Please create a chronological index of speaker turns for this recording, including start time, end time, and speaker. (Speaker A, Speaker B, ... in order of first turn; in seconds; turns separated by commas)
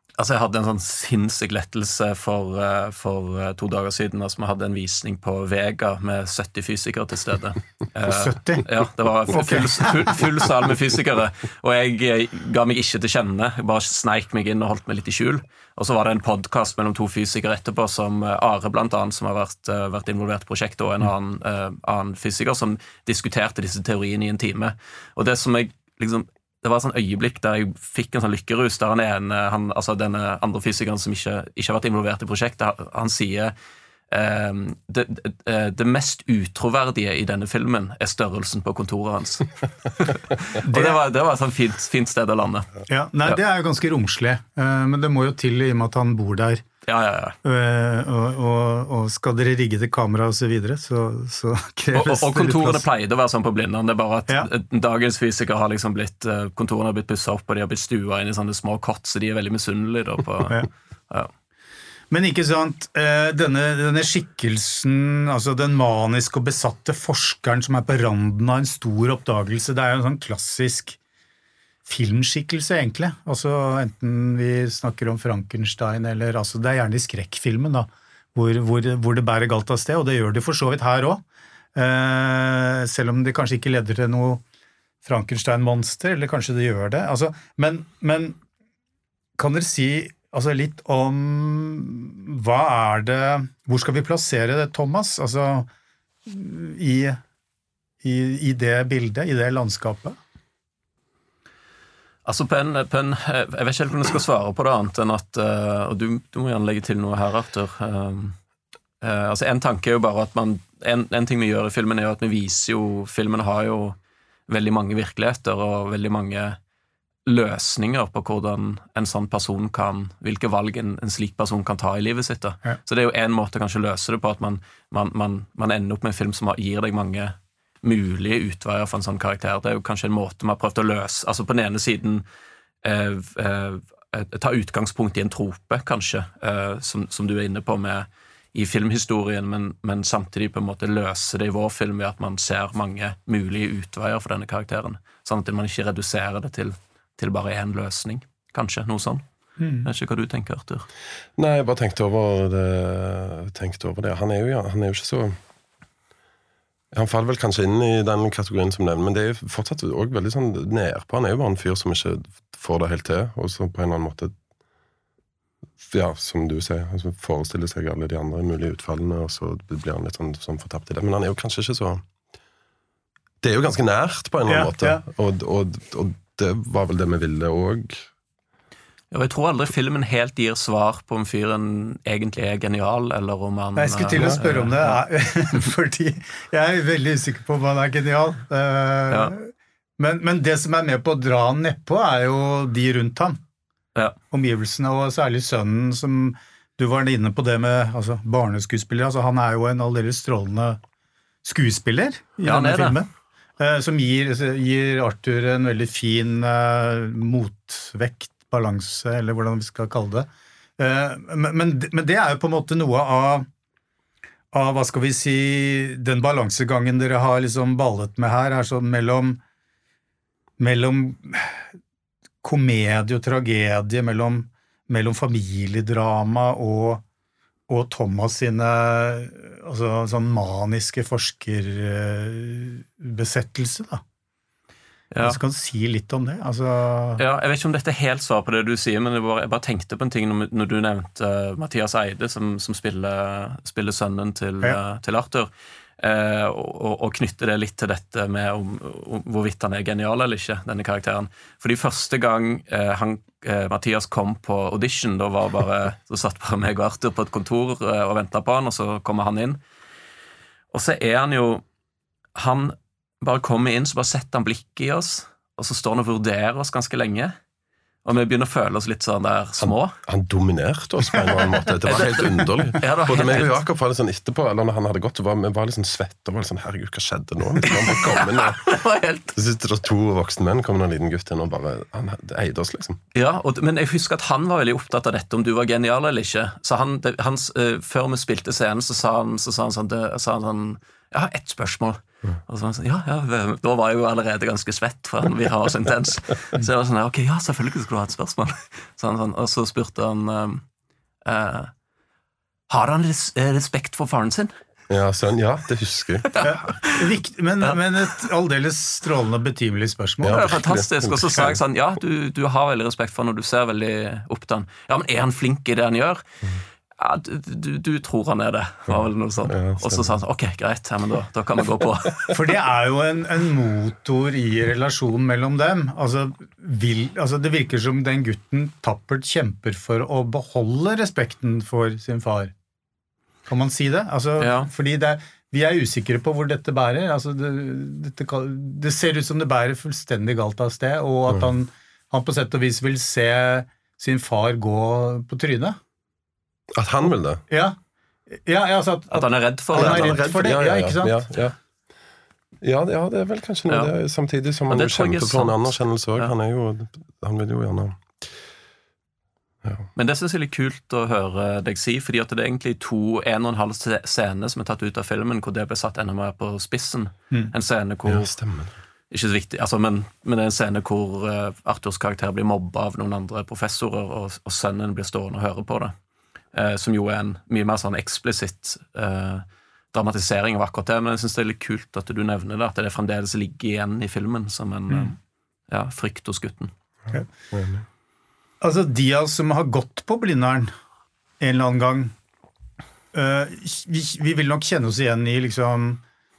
Speaker A: 0.2-33.5, Speaker B: 8.1-8.7, Speaker B: 9.3-10.1, Speaker A: 34.1-42.8, Speaker B: 40.6-41.0, Speaker B: 42.9-46.6, Speaker A: 46.9-47.4, Speaker B: 47.4-52.8, Speaker A: 51.9-61.3, Speaker B: 62.1-71.0, Speaker B: 71.9-81.2, Speaker B: 81.8-84.4, Speaker B: 85.0-88.4, Speaker B: 89.4-95.7, Speaker B: 96.3-97.2, Speaker B: 98.0-100.2, Speaker A: 102.2-108.4, Speaker A: 109.0-114.0, Speaker A: 114.5-116.6, Speaker A: 117.3-132.2, Speaker A: 132.8-149.2, Speaker B: 149.6-149.9, Speaker A: 149.8-150.9, Speaker C: 151.4-155.4, Speaker C: 156.9-164.3, Speaker C: 165.8-172.0, Speaker C: 173.4-178.1, Speaker B: 174.5-175.0, Speaker A: 179.1-185.0, Speaker B: 183.8-193.4, Speaker B: 194.3-200.8, Speaker B: 201.4-213.5, Speaker A: 202.4-203.0, Speaker B: 214.5-219.4, Speaker B: 220.6-221.7, Speaker B: 222.4-227.0, Speaker B: 227.7-234.0, Speaker A: 235.1-235.4, Speaker B: 235.2-237.2, Speaker A: 237.2-259.6, Speaker A: 260.7-261.6, Speaker A: 262.4-267.4, Speaker A: 268.1-269.9, Speaker C: 269.6-278.7, Speaker A: 271.8-273.6, Speaker A: 277.6-279.4, Speaker C: 279.4-283.0, Speaker A: 283.1-300.6, Speaker A: 301.2-301.7, Speaker A: 302.7-304.5, Speaker C: 304.9-306.3, Speaker A: 306.3-307.1, Speaker B: 306.4-310.5, Speaker C: 310.2-311.6, Speaker A: 310.3-316.2, Speaker A: 317.0-322.4, Speaker C: 318.9-320.2, Speaker B: 322.3-332.5, Speaker B: 333.5-345.8, Speaker A: 334.4-334.7, Speaker C: 346.8-347.4, Speaker B: 347.5-347.8, Speaker B: 348.3-351.2, Speaker A: 349.1-350.2, Speaker C: 349.7-351.6, Speaker C: 352.6-358.2, Speaker A: 353.7-353.9, Speaker A: 354.7-355.6, Speaker C: 359.6-359.9, Speaker A: 360.0-368.3, Speaker C: 368.1-368.8, Speaker A: 369.1-375.9, Speaker A: 376.5-385.1, Speaker A: 385.7-386.7, Speaker C: 387.5-387.9, Speaker B: 388.6-390.7, Speaker B: 391.4-392.1, Speaker B: 393.1-396.0